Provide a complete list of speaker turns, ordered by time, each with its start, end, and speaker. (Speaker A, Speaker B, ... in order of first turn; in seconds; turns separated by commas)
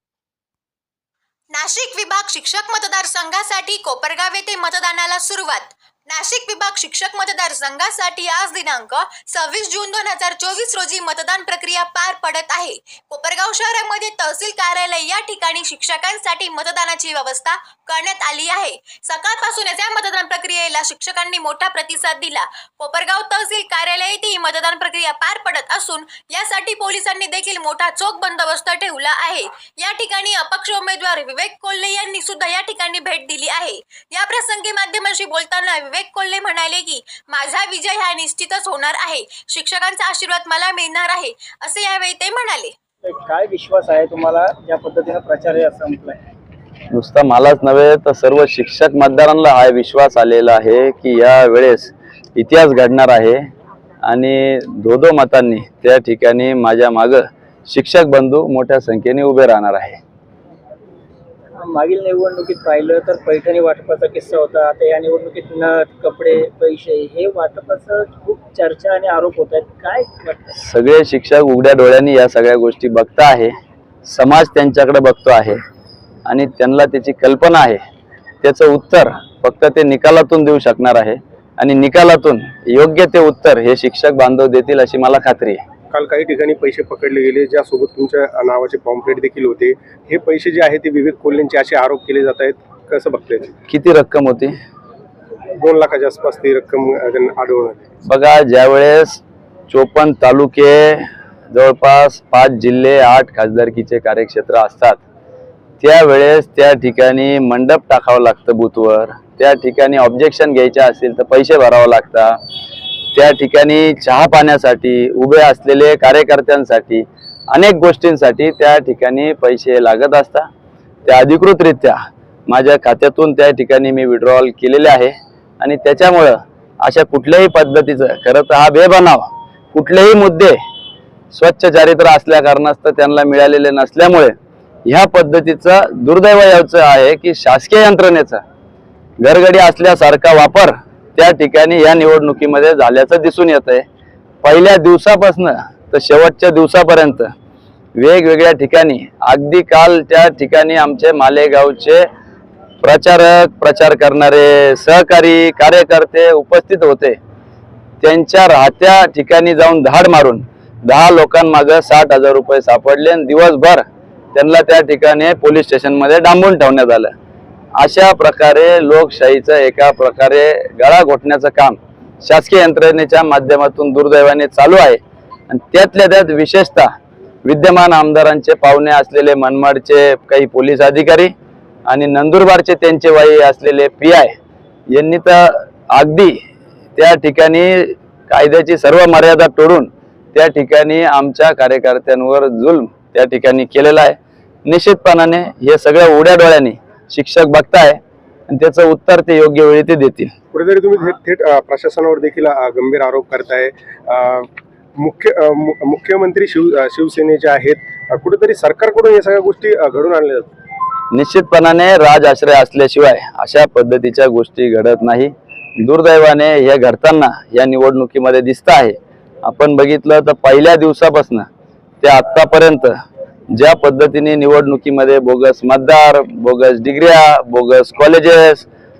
Speaker A: 1.5-42.7, Speaker B: 43.0-46.2, Speaker C: 46.9-53.4, Speaker C: 54.0-60.0, Speaker B: 61.5-70.4, Speaker C: 70.5-73.5, Speaker C: 74.0-75.6, Speaker C: 76.3-77.8, Speaker C: 78.4-85.6, Speaker D: 85.9-93.5, Speaker C: 93.7-94.5, Speaker D: 95.6-97.8, Speaker C: 98.0-105.0, Speaker C: 105.8-112.4, Speaker C: 113.1-120.5, Speaker C: 121.0-122.0, Speaker C: 122.5-130.6, Speaker C: 131.3-134.3, Speaker C: 134.8-138.4, Speaker C: 139.2-143.8, Speaker C: 144.4-147.3, Speaker C: 148.0-152.1, Speaker C: 152.8-157.2, Speaker C: 158.0-163.8, Speaker C: 164.3-167.1, Speaker C: 167.8-176.9, Speaker C: 177.4-181.3, Speaker C: 181.9-184.3, Speaker C: 184.9-186.4, Speaker C: 186.9-200.3, Speaker D: 200.5-210.5, Speaker C: 211.1-221.5, Speaker C: 222.0-222.9, Speaker C: 223.5-228.7